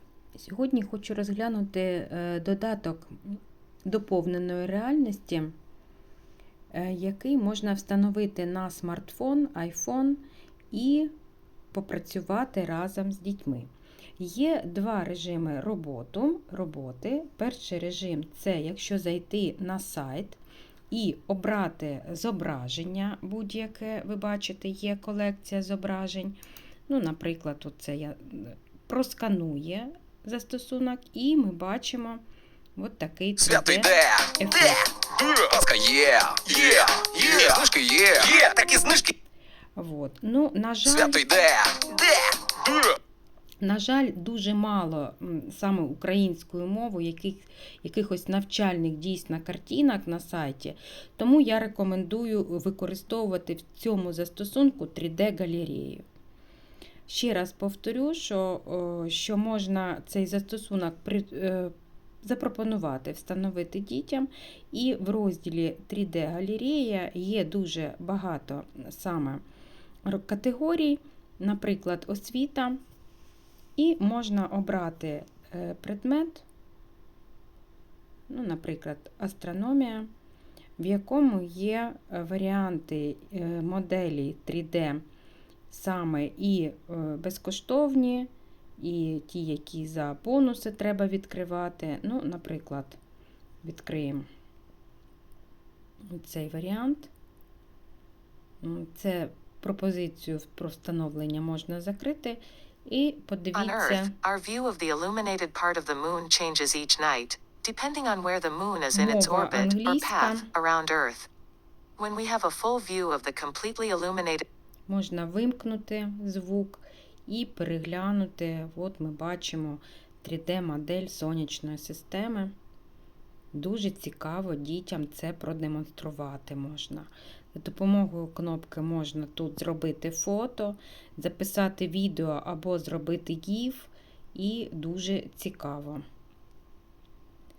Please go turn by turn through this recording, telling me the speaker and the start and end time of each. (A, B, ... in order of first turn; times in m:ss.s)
0:00.3-0:05.6 A
0:06.7-0:11.1 A
0:11.7-0:20.4 A
0:20.9-0:32.2 A
0:32.8-0:34.9 A
0:33.4-0:34.4 B
0:34.9-0:39.1 B
0:39.8-0:41.4 A
0:41.0-0:42.9 B
0:43.6-0:56.0 A
0:57.1-1:09.4 A
1:10.0-1:12.8 A
1:13.8-1:16.4 A
1:18.3-1:20.1 A
1:20.8-1:25.0 A
1:25.7-1:33.0 A
1:33.6-1:34.3 A
1:36.1-1:37.1 A
1:38.6-1:44.2 A
1:43.5-1:51.3 C
1:48.9-1:50.5 A
1:52.0-1:54.4 C
1:54.9-2:02.5 A
2:03.5-2:16.0 A